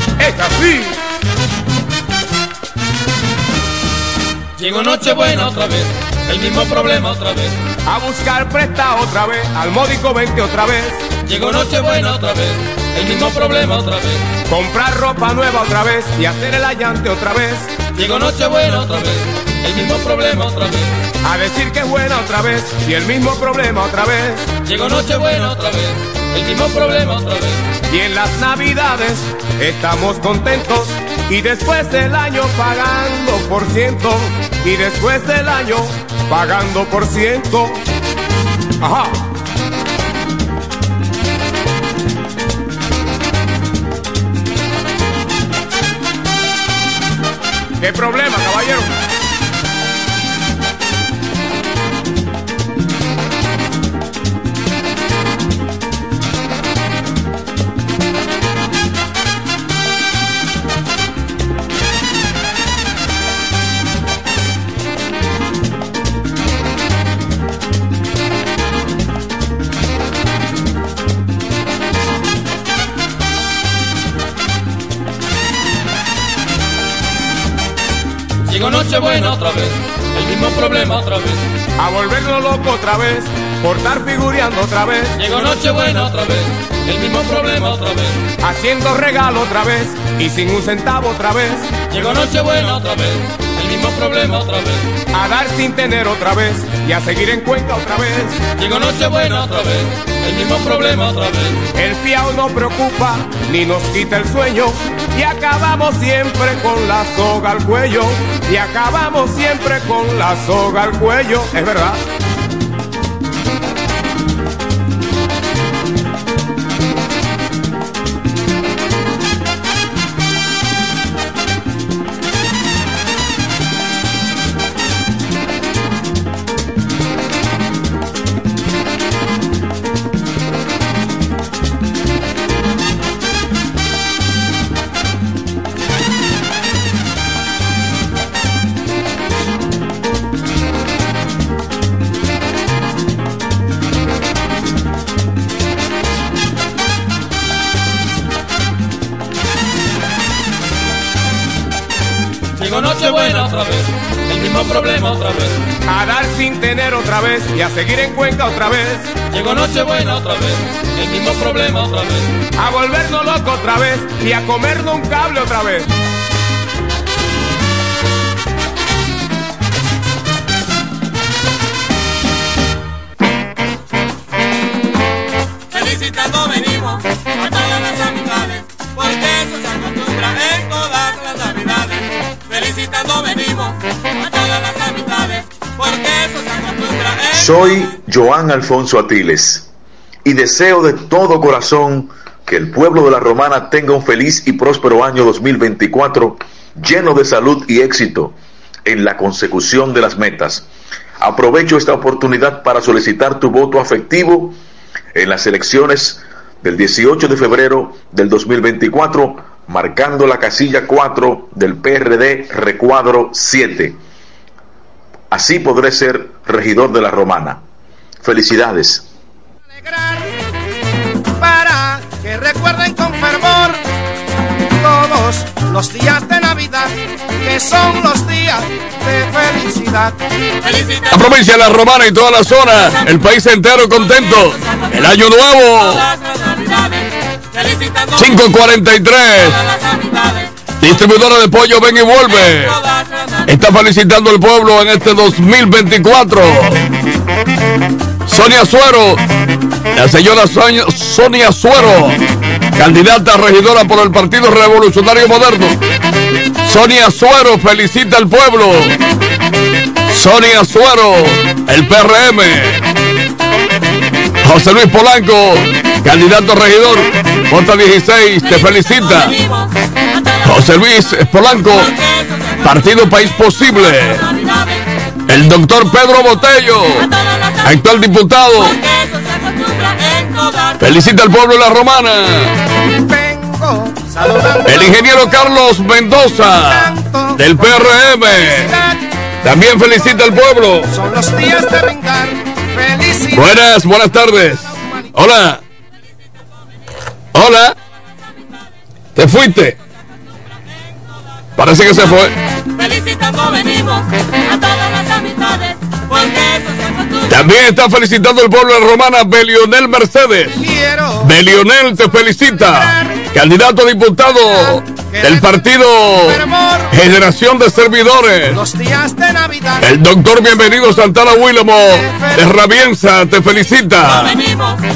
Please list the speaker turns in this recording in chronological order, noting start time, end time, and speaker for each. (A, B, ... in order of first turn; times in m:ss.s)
0:00.2-0:01.0 A
0:04.6-0:07.6 B
0:07.9-0:11.1 A
0:11.2-0:14.3 B
0:14.5-0:17.8 A
0:17.9-0:21.0 B
0:21.2-0:24.6 A
0:24.6-0:27.7 B
0:27.9-0:37.8 A
0:38.8-0:39.2 A
0:47.8-0:49.0 A
1:18.5-1:21.4 B
1:21.8-1:25.7 A
1:25.2-1:28.3 B
1:28.4-1:31.8 A
1:31.9-1:34.9 B
1:35.1-1:38.4 A
1:38.6-1:41.6 B
1:41.8-1:52.0 A
2:32.6-2:35.6 B
2:35.9-2:39.1 A
2:39.3-2:42.4 B
2:42.6-2:45.9 A
2:55.7-3:07.5 C
3:07.3-3:09.7 D
3:10.2-3:18.4 D
3:18.9-3:20.7 D
3:21.2-3:24.6 D
3:25.1-3:34.0 D
3:35.3-3:37.6 D
3:38.2-3:39.1 D
3:39.7-3:40.4 E
3:41.4-3:43.8 E
3:44.8-3:50.2 E
3:50.6-3:51.2 C
3:51.1-3:56.0 F
3:54.3-3:54.9 C
3:55.6-3:58.5 C
3:58.2-3:59.6 F
3:59.4-4:00.5 C
4:00.8-4:02.8 F
4:02.3-4:03.5 C
4:03.5-4:06.8 F
4:08.3-4:09.2 F
4:10.0-4:12.2 F
4:12.8-4:15.8 F
4:16.6-4:19.0 F
4:20.1-4:22.8 F
4:24.4-4:29.3 F
4:28.6-4:30.5 C
4:30.4-4:31.9 F
4:31.7-4:32.8 C
4:32.6-4:34.2 F
4:33.6-4:34.8 C
4:35.3-4:37.1 F
4:37.0-4:37.8 C
4:37.6-4:38.8 F
4:38.6-4:40.8 C
4:40.8-4:42.5 F
4:42.9-4:45.0 E
4:44.7-4:48.7 F
4:46.5-4:49.0 E
4:49.4-4:50.9 F
4:50.9-4:53.8 E
4:53.3-4:55.6 F
4:54.3-4:55.2 E
4:57.4-4:57.8 F
4:59.2-4:59.8 F
5:01.6-5:02.4 F
5:02.8-5:07.3 C
5:07.3-5:10.6 F
5:10.5-5:11.4 E
5:11.2-5:16.4 F
5:12.2-5:13.2 E
5:15.1-5:17.0 E
5:16.9-5:18.6 F
5:18.5-5:19.9 E
5:19.8-5:24.4 F
5:21.8-5:22.4 E
5:24.0-5:24.8 C